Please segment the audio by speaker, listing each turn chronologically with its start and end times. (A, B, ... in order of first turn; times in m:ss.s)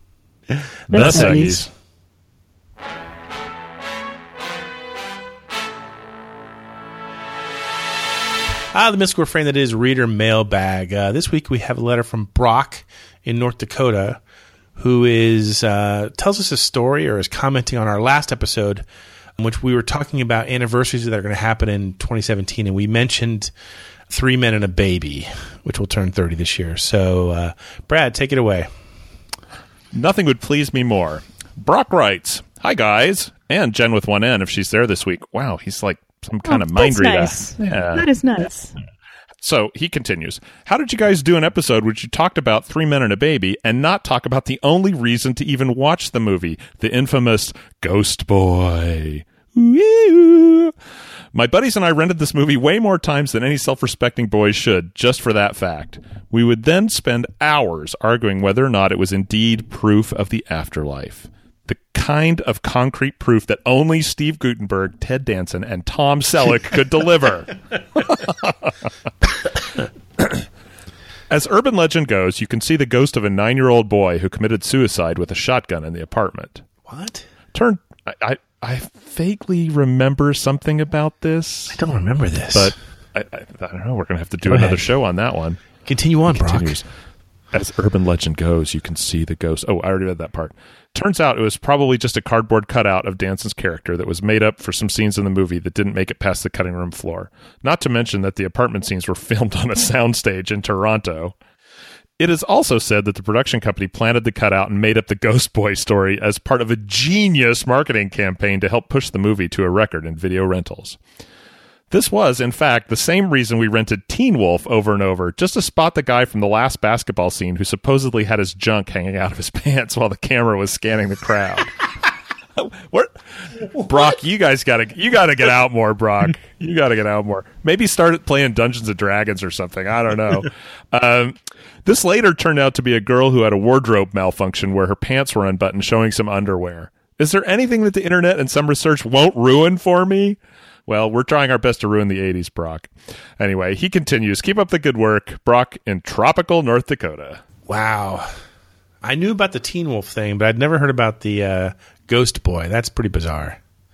0:00.5-0:01.7 A
0:00.9-0:01.6 B
0:00.9-0:01.6 C
0:08.7-0:14.2 A
0:14.8-0:18.8 A
0:19.4-0:23.5 A
0:24.1-0:28.7 A
0:29.9-0:38.1 B
0:36.4-0:38.7 C
0:39.4-0:50.7 B
0:51.3-1:08.9 B
1:10.2-1:10.4 B
1:11.3-1:16.6 B
1:16.8-1:17.2 A
1:17.5-1:21.8 B
1:21.7-1:22.7 A
1:22.5-1:25.6 B
1:24.4-1:24.8 A
1:25.8-1:26.8 A
1:26.3-1:26.8 B
1:27.5-1:41.3 B
1:42.2-1:51.0 B
1:51.9-2:01.7 B
2:02.6-2:03.2 B
2:03.7-2:27.4 B
2:27.7-2:28.3 A
2:29.0-2:33.6 A